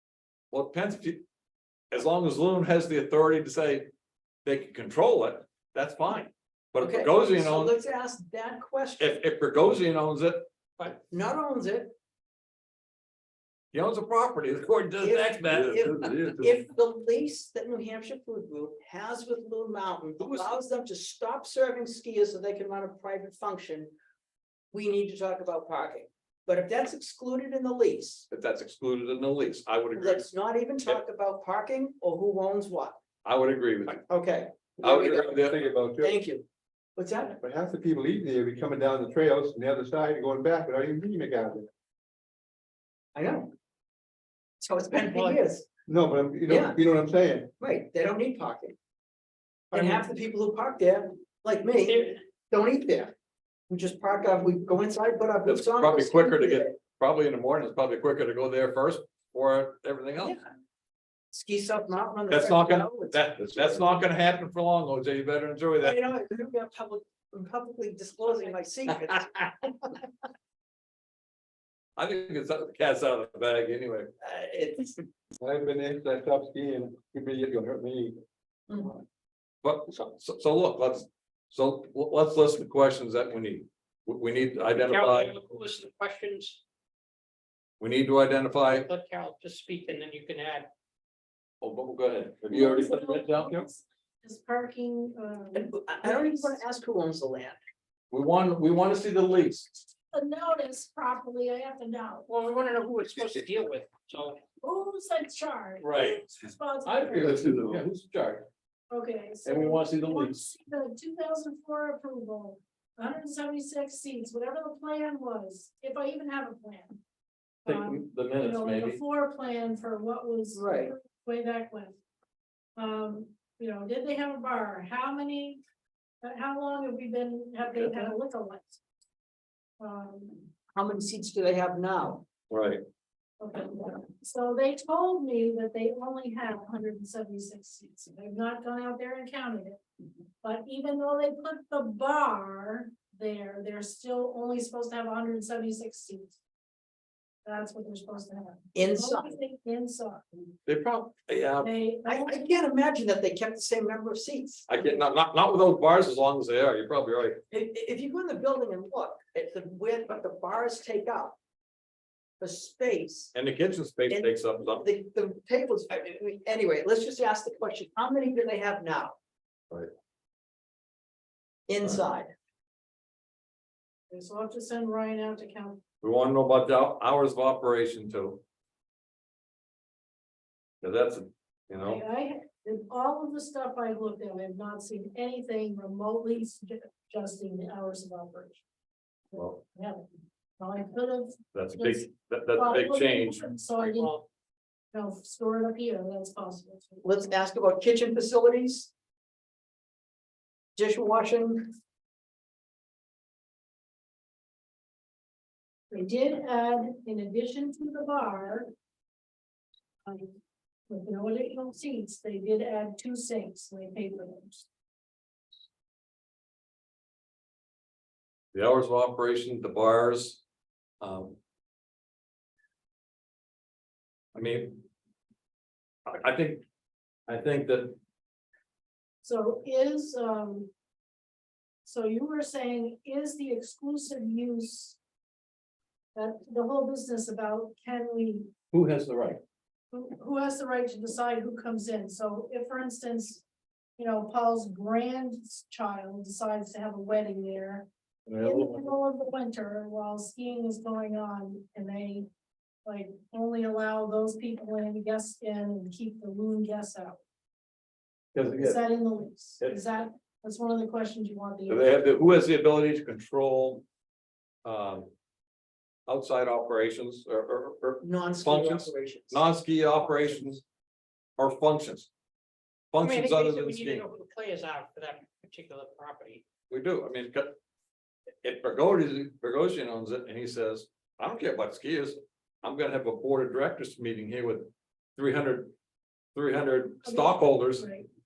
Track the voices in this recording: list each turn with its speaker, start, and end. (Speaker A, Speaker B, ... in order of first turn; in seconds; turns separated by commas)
Speaker A: 0.5-1.2, Speaker A: 1.9-3.9, Speaker A: 4.5-7.7, Speaker B: 6.8-9.2, Speaker A: 9.0-10.8, Speaker B: 11.1-11.9, Speaker A: 13.7-16.6, Speaker B: 15.0-23.9, Speaker A: 20.2-20.6, Speaker B: 24.7-28.3, Speaker A: 28.3-30.3, Speaker B: 29.9-33.0, Speaker A: 33.2-34.0, Speaker B: 33.9-35.3, Speaker A: 34.8-35.6, Speaker C: 34.9-36.2, Speaker B: 36.0-37.4, Speaker C: 37.4-41.7, Speaker B: 43.1-43.5, Speaker B: 44.6-45.7, Speaker D: 45.0-45.4, Speaker C: 45.9-47.5, Speaker B: 46.5-46.8, Speaker B: 47.6-48.8, Speaker B: 49.7-53.1, Speaker B: 53.7-56.8, Speaker A: 55.5-60.4, Speaker B: 61.3-63.8, Speaker A: 62.3-66.0, Speaker B: 65.8-70.0, Speaker A: 72.0-74.1, Speaker B: 74.2-75.0, Speaker C: 75.4-78.2, Speaker A: 79.6-85.3, Speaker D: 84.8-86.6, Speaker A: 87.8-88.9, Speaker D: 88.6-90.7, Speaker A: 91.6-93.7, Speaker E: 92.5-96.6, Speaker B: 95.5-97.6, Speaker A: 98.1-99.8, Speaker E: 100.1-102.3, Speaker D: 102.3-104.4, Speaker E: 104.6-107.7, Speaker A: 105.8-106.2, Speaker A: 106.8-108.5, Speaker E: 108.9-117.0, Speaker A: 109.5-110.4, Speaker E: 117.6-122.0, Speaker A: 117.7-119.0, Speaker B: 120.5-120.9, Speaker E: 122.8-125.6, Speaker E: 126.2-128.8, Speaker A: 127.7-128.1, Speaker E: 129.8-130.5, Speaker B: 130.8-132.3, Speaker A: 132.5-132.8, Speaker E: 133.4-139.8, Speaker E: 140.4-146.4, Speaker E: 147.4-150.4, Speaker B: 148.8-149.4, Speaker A: 150.7-151.7, Speaker E: 151.6-152.4, Speaker B: 152.1-154.7, Speaker A: 154.7-157.4, Speaker B: 157.5-161.4, Speaker B: 162.4-163.3, Speaker A: 163.3-164.8, Speaker B: 164.1-169.2, Speaker B: 171.7-172.3, Speaker E: 174.1-175.8, Speaker A: 176.0-178.4, Speaker A: 180.8-182.0, Speaker E: 181.8-188.6, Speaker E: 189.3-190.0, Speaker A: 189.3-189.6, Speaker E: 190.6-194.1, Speaker A: 191.5-193.4, Speaker D: 193.8-194.3, Speaker E: 194.9-197.3, Speaker B: 197.0-198.9, Speaker B: 200.8-201.8, Speaker E: 205.9-208.7, Speaker E: 210.1-210.4, Speaker E: 210.9-214.7, Speaker A: 218.5-220.4, Speaker A: 221.0-221.4, Speaker A: 224.3-224.8, Speaker A: 226.1-226.6, Speaker A: 227.3-228.0, Speaker E: 229.2-230.7, Speaker E: 231.8-235.0, Speaker E: 236.2-238.5, Speaker A: 238.7-239.4, Speaker E: 239.9-243.4, Speaker E: 244.0-252.3, Speaker A: 248.3-248.8, Speaker E: 252.8-257.2, Speaker A: 258.3-258.8, Speaker E: 258.6-262.0, Speaker A: 261.7-263.9, Speaker A: 264.6-265.1, Speaker A: 266.1-270.6, Speaker B: 268.0-269.4, Speaker A: 271.4-272.1, Speaker A: 272.9-274.1, Speaker D: 273.0-276.4, Speaker A: 276.7-277.6, Speaker A: 278.4-285.7, Speaker A: 286.3-287.9, Speaker E: 287.0-288.1